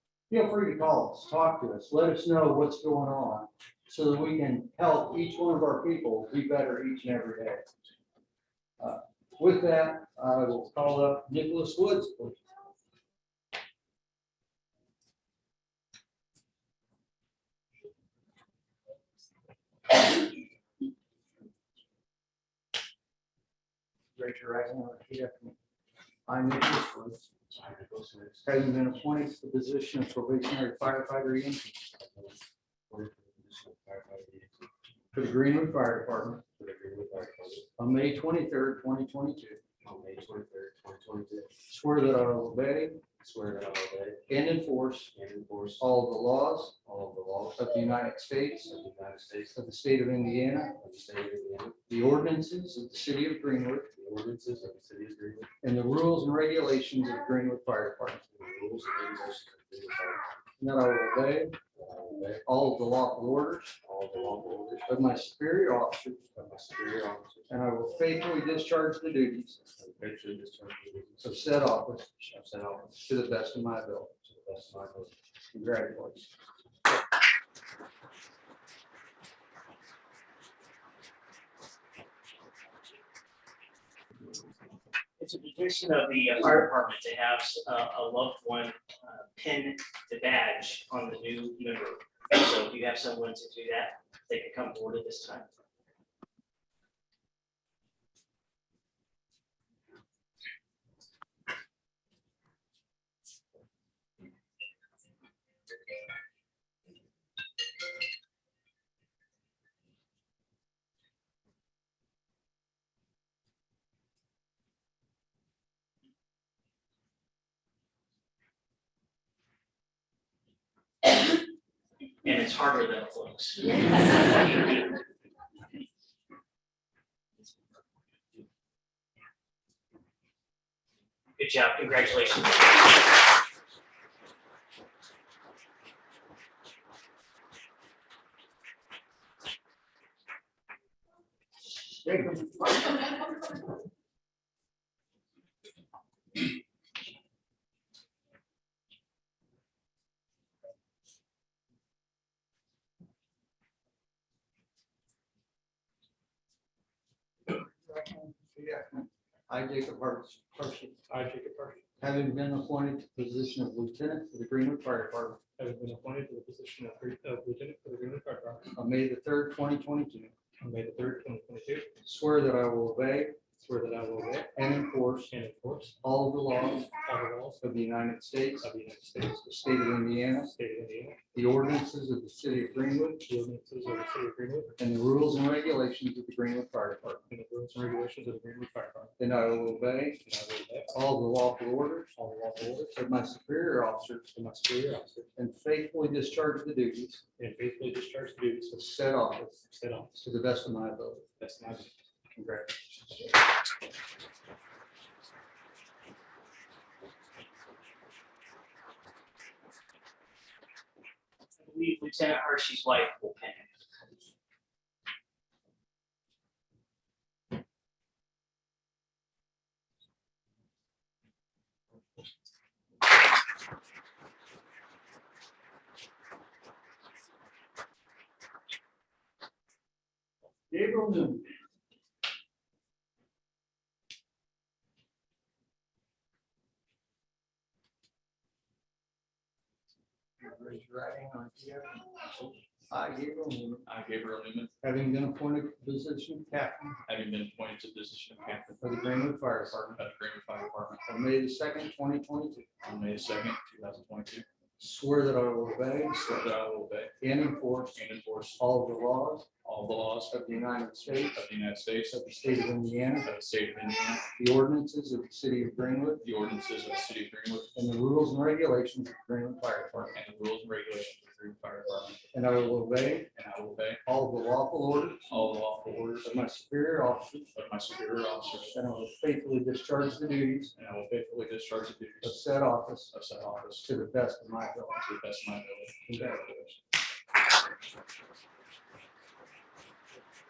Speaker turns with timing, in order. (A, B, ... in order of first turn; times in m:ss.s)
0:00.3-0:07.7 A
0:08.8-0:12.4 A
0:24.2-0:25.6 A
0:26.3-0:27.3 A
0:27.5-0:28.5 B
0:28.4-0:31.8 A
0:32.0-0:34.7 B
0:35.1-0:36.4 A
0:36.6-0:37.7 B
0:37.8-0:39.6 A
0:39.8-0:41.5 B
0:41.7-0:43.0 A
0:43.2-0:44.3 B
0:44.3-0:45.1 A
0:45.1-0:45.9 B
0:45.8-0:46.9 A
0:46.9-0:47.6 B
0:47.5-0:48.8 A
0:48.7-0:49.6 B
0:49.5-0:50.8 A
0:50.8-0:51.8 B
0:51.9-0:53.9 A
0:54.0-0:55.5 B
0:55.6-0:58.2 A
0:58.3-1:00.3 B
1:00.6-1:01.6 A
1:01.8-1:02.4 B
1:02.4-1:03.8 A
1:03.8-1:04.9 B
1:04.9-1:06.3 A
1:06.4-1:07.5 B
1:07.5-1:09.6 A
1:09.7-1:11.4 B
1:11.2-1:12.3 A
1:12.3-1:13.0 B
1:12.9-1:14.2 A
1:14.3-1:15.1 B
1:15.5-1:16.3 A
1:25.2-1:35.5 C
2:02.2-2:04.7 C
2:11.4-2:12.8 C
2:22.0-2:23.1 A
2:37.5-2:41.0 A
2:41.1-2:41.8 D
2:42.0-2:45.4 A
2:45.6-2:48.7 D
2:48.8-2:50.4 A
2:50.6-2:51.9 D
2:52.0-2:53.5 A
2:53.6-2:54.3 D
2:54.2-2:55.3 A
2:55.3-2:56.0 D
2:56.0-2:56.9 A
2:56.9-2:57.6 D
2:57.6-2:58.7 A
2:58.6-2:59.4 D
2:59.3-3:00.6 A
3:00.5-3:01.2 D
3:01.3-3:03.2 A
3:03.2-3:04.8 D
3:04.8-3:07.3 A
3:07.3-3:09.1 D
3:09.2-3:10.2 A
3:10.2-3:10.9 D
3:10.9-3:12.2 A
3:12.2-3:12.9 D
3:12.8-3:17.2 A
3:14.8-3:15.2 D
3:17.4-3:18.8 D
3:18.7-3:19.6 A
3:19.6-3:20.2 D
3:20.2-3:21.3 A
3:21.4-3:21.9 D
3:22.3-3:23.2 A
3:31.6-3:33.7 C
3:50.7-3:51.4 A
4:00.4-4:03.9 A
4:03.9-4:04.7 E
4:04.8-4:07.0 A
4:07.0-4:08.8 E
4:08.8-4:10.0 A
4:10.0-4:11.0 E
4:11.0-4:12.7 A
4:12.8-4:14.5 E
4:14.8-4:16.3 A
4:16.1-4:17.1 E
4:17.2-4:18.0 A
4:18.0-4:18.6 E
4:18.6-4:19.5 A
4:19.6-4:20.3 E
4:20.3-4:21.4 A
4:21.3-4:22.3 E
4:22.2-4:23.3 A
4:23.2-4:24.3 E
4:24.4-4:26.2 A
4:26.2-4:27.7 E
4:27.8-4:30.2 A
4:30.1-4:32.3 E
4:32.3-4:33.3 A
4:33.3-4:34.0 E
4:34.1-4:35.3 A
4:35.3-4:36.3 E
4:36.2-4:37.5 A
4:37.5-4:38.8 E
4:38.7-4:40.7 A
4:40.8-4:42.4 E
4:42.2-4:43.1 A
4:43.1-4:43.9 E
4:43.8-4:45.0 A
4:45.0-4:46.1 E
4:46.1-4:46.8 A